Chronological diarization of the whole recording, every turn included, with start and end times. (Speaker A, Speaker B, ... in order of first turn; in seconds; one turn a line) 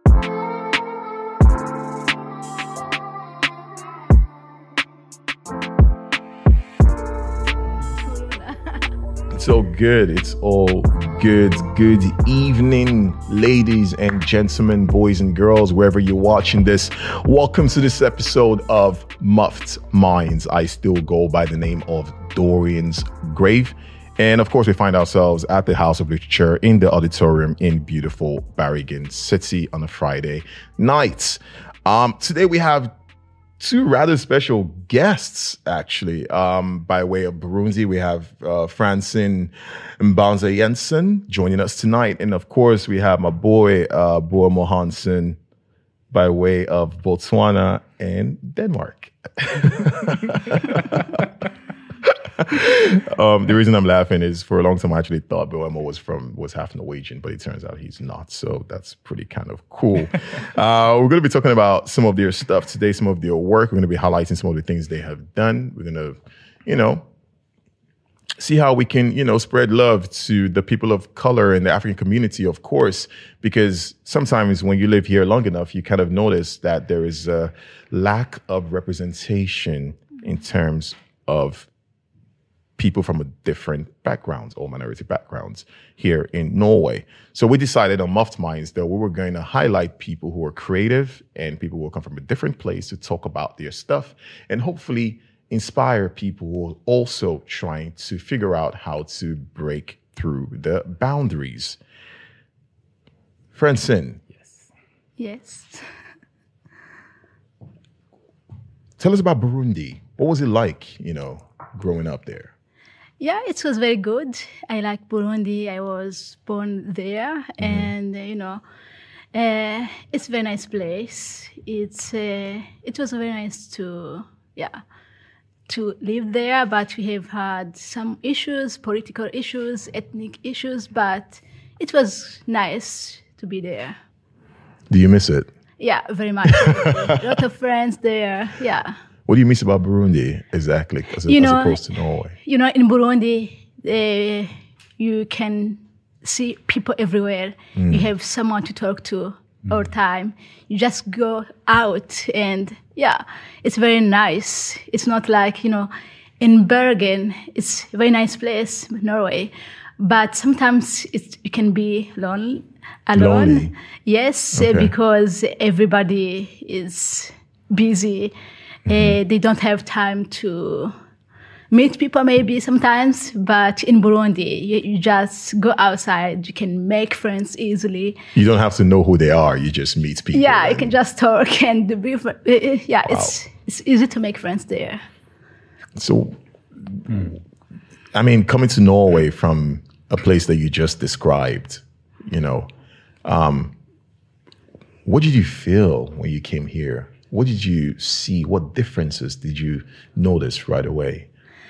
Speaker A: 8.0-8.8
Speaker B: 9.3-32.9
Speaker B: 33.6-45.4
Speaker B: 46.1-51.3
Speaker B: 52.0-67.0
Speaker B: 68.4-81.7
Speaker B: 82.8-101.8
Speaker B: 103.5-104.2
Speaker A: 105.2-105.9
Speaker B: 109.0-112.5
Speaker A: 113.2-118.6
Speaker B: 117.6-117.9
Speaker A: 119.3-124.8
Speaker A: 125.7-134.0
Speaker B: 134.9-135.5
Speaker A: 135.8-138.9
Speaker B: 136.5-137.4
Speaker B: 139.3-142.3
Speaker A: 141.3-141.8
Speaker A: 142.4-168.3
Speaker B: 147.8-148.1
Speaker B: 163.1-163.7
Speaker B: 164.6-164.9
Speaker B: 168.9-169.2
Speaker A: 168.9-170.9
Speaker A: 171.7-178.2
Speaker B: 178.3-180.9
Speaker A: 180.3-185.0
Speaker B: 183.1-183.3
Speaker B: 186.0-187.4
Speaker B: 188.1-192.7
Speaker B: 193.2-193.7
Speaker B: 195.1-201.3